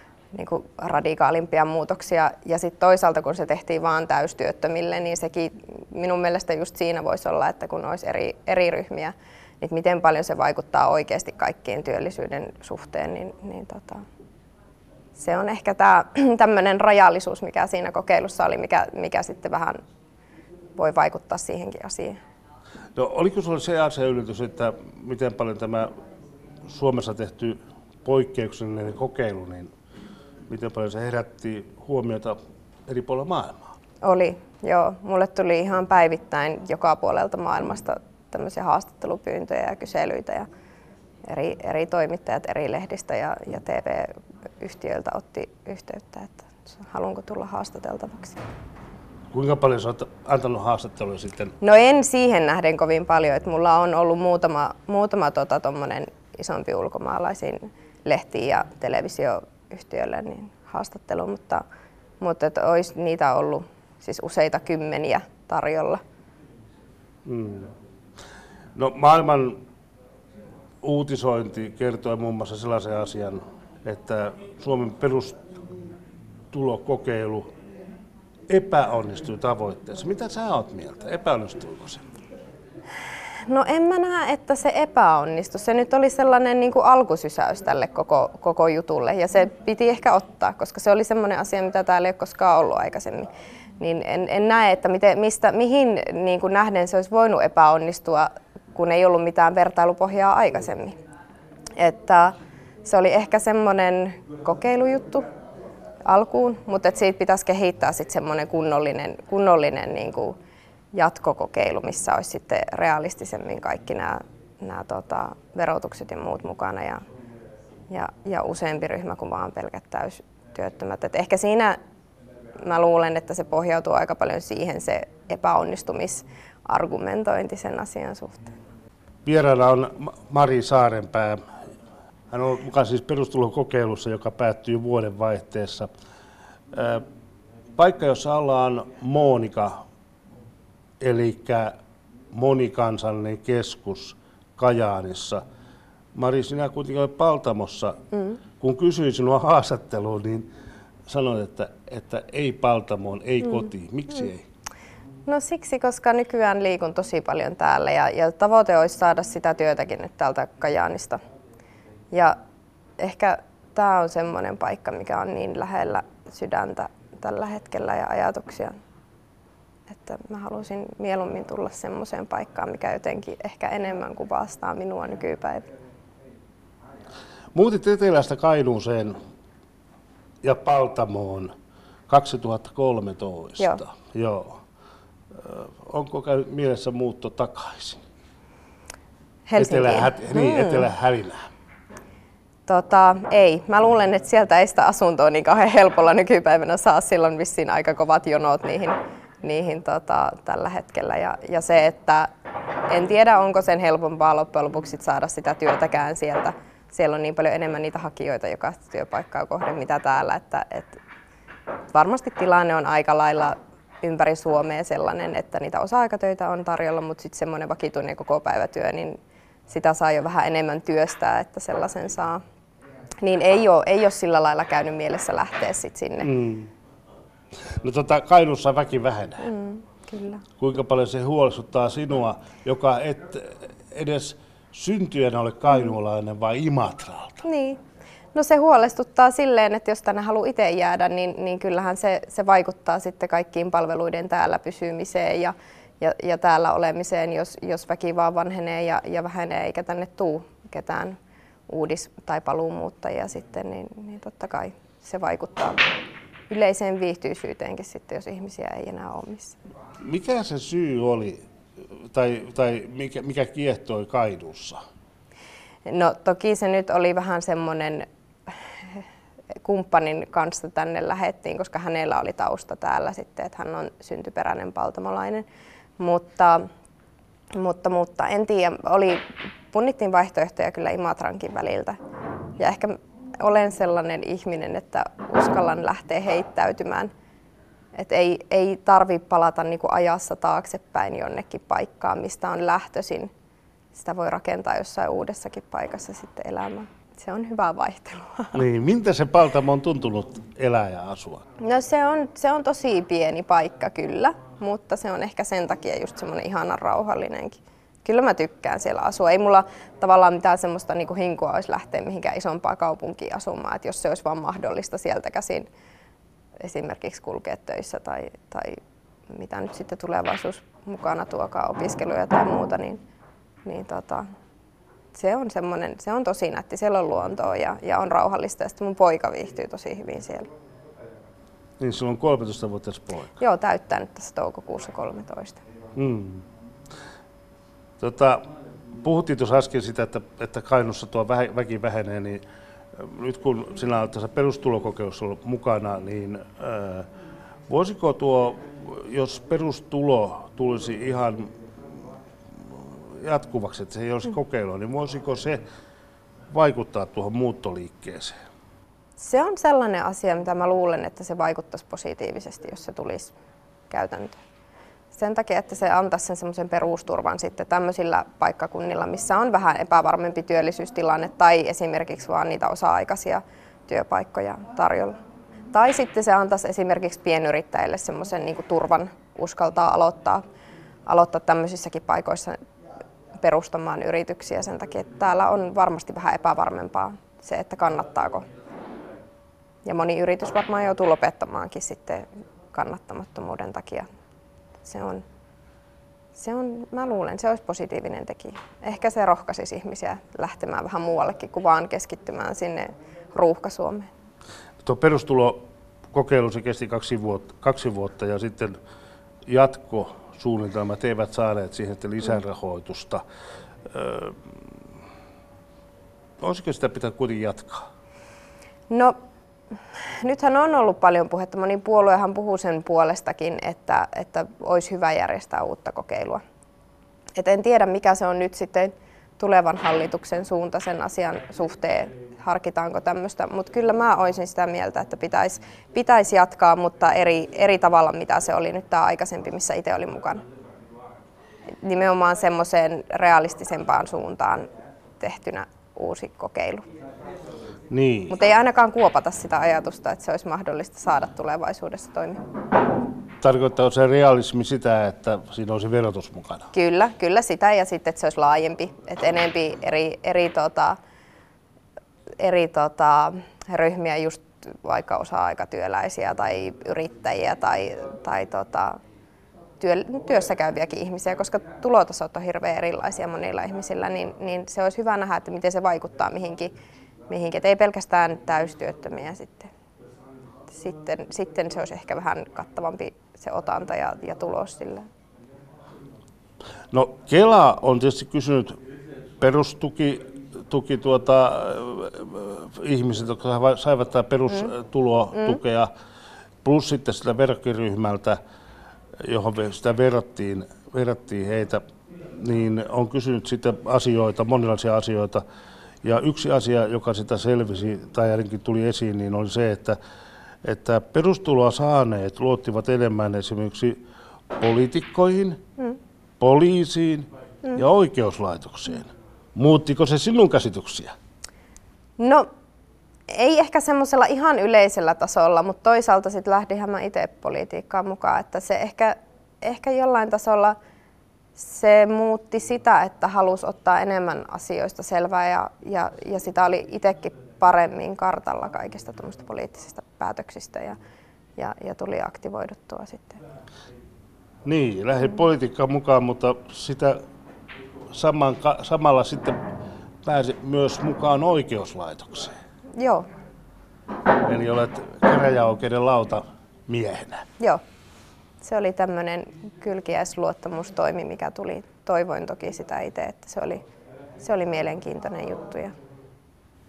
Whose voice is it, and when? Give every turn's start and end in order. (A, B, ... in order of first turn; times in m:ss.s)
0:00.3-0:14.0 A
0:15.2-0:19.8 A
0:20.8-0:22.2 A
0:23.0-0:25.9 B
0:26.7-0:29.7 B
0:30.5-0:33.7 B
0:34.0-0:40.5 A
0:41.3-0:48.4 A
0:49.3-0:51.6 B
0:51.6-1:01.6 A
1:02.2-1:06.0 A
1:07.3-1:07.7 B
1:08.8-1:09.6 B
1:10.8-1:15.4 B
1:16.5-1:17.5 B
1:18.5-1:22.0 B
1:23.5-1:41.0 A
1:41.8-1:45.3 A
1:46.0-1:50.4 A
1:50.9-1:57.0 A
1:57.9-2:01.8 A
2:02.6-2:08.5 A
2:09.3-2:11.4 B
2:12.3-2:15.9 B
2:16.7-2:17.0 B
2:17.8-2:19.8 B
2:21.0-2:21.7 B
2:22.3-2:25.4 B
2:26.2-2:28.0 B
2:28.6-2:30.5 B
2:31.1-2:34.5 B
2:35.3-2:41.2 A
2:42.1-2:42.4 A
2:43.0-2:48.8 A
2:49.9-2:55.7 A
2:57.5-2:59.2 B
3:00.4-3:01.5 B
3:02.1-3:04.6 B
3:05.3-3:08.0 B
3:09.5-3:10.9 A
3:09.6-3:11.4 B
3:12.7-3:22.3 A
3:22.9-3:31.0 A
3:31.9-3:42.4 A
3:43.2-3:46.3 A
3:46.2-3:46.7 B
3:47.6-3:49.5 B
3:49.4-3:50.4 A
3:50.6-3:57.4 B
3:57.4-3:57.8 A
3:58.3-4:11.2 A
4:11.7-4:15.9 A
4:16.5-4:19.6 A
4:20.0-4:21.4 B
4:22.1-4:24.8 B
4:25.9-4:29.0 A
4:29.6-4:35.4 A
4:36.0-4:36.7 A
4:37.5-4:42.0 A
4:42.6-4:47.1 A
4:48.0-4:53.3 A
4:53.9-4:58.6 A
4:58.5-5:01.4 B
5:01.6-5:15.7 A
5:16.6-5:23.0 A
5:23.6-5:24.3 A
5:25.1-5:30.5 A
5:31.8-5:33.4 B
5:33.4-5:35.6 A
5:36.0-5:36.4 B
5:38.0-5:38.4 B
5:39.0-5:42.4 B
5:43.0-5:47.1 B
5:47.7-5:51.5 B
5:52.8-5:55.6 B
5:56.5-5:58.4 B
5:59.2-6:03.3 A
6:03.9-6:04.4 A
6:05.1-6:15.2 A
6:15.7-6:20.4 A
6:21.1-6:22.6 A
6:23.4-6:28.4 A
6:29.8-6:34.1 A
6:34.8-6:35.2 A
6:36.4-6:44.1 A
6:44.8-6:48.8 B
6:49.5-6:53.2 B
6:53.9-6:54.8 B
6:56.4-6:57.8 B
6:58.9-6:59.2 A
6:59.7-7:06.4 A
7:07.4-7:20.4 A
7:21.8-7:24.7 A
7:25.2-7:26.9 A
7:27.9-7:28.4 B
7:28.3-7:32.4 A
7:33.4-7:36.7 B
7:36.7-7:41.0 A
7:42.4-7:49.0 A
7:49.8-7:56.7 A
7:57.3-7:59.7 A
8:00.7-8:05.1 A
8:06.9-8:08.8 B
8:09.4-8:15.9 B
8:15.3-8:15.6 A
8:16.6-8:18.4 B
8:19.2-8:21.8 B
8:22.4-8:25.4 B
8:26.0-8:30.0 B
8:30.6-8:34.0 B
8:34.6-8:35.6 B
8:36.4-8:41.1 B
8:42.2-8:42.5 A
8:43.3-8:50.8 A
8:51.6-9:01.0 A
9:01.6-9:03.4 A
9:04.6-9:07.2 B
9:08.1-9:09.6 B
9:10.2-9:12.5 B
9:13.0-9:13.3 A
9:14.4-9:17.5 B
9:18.6-9:23.8 A
9:24.4-9:26.0 A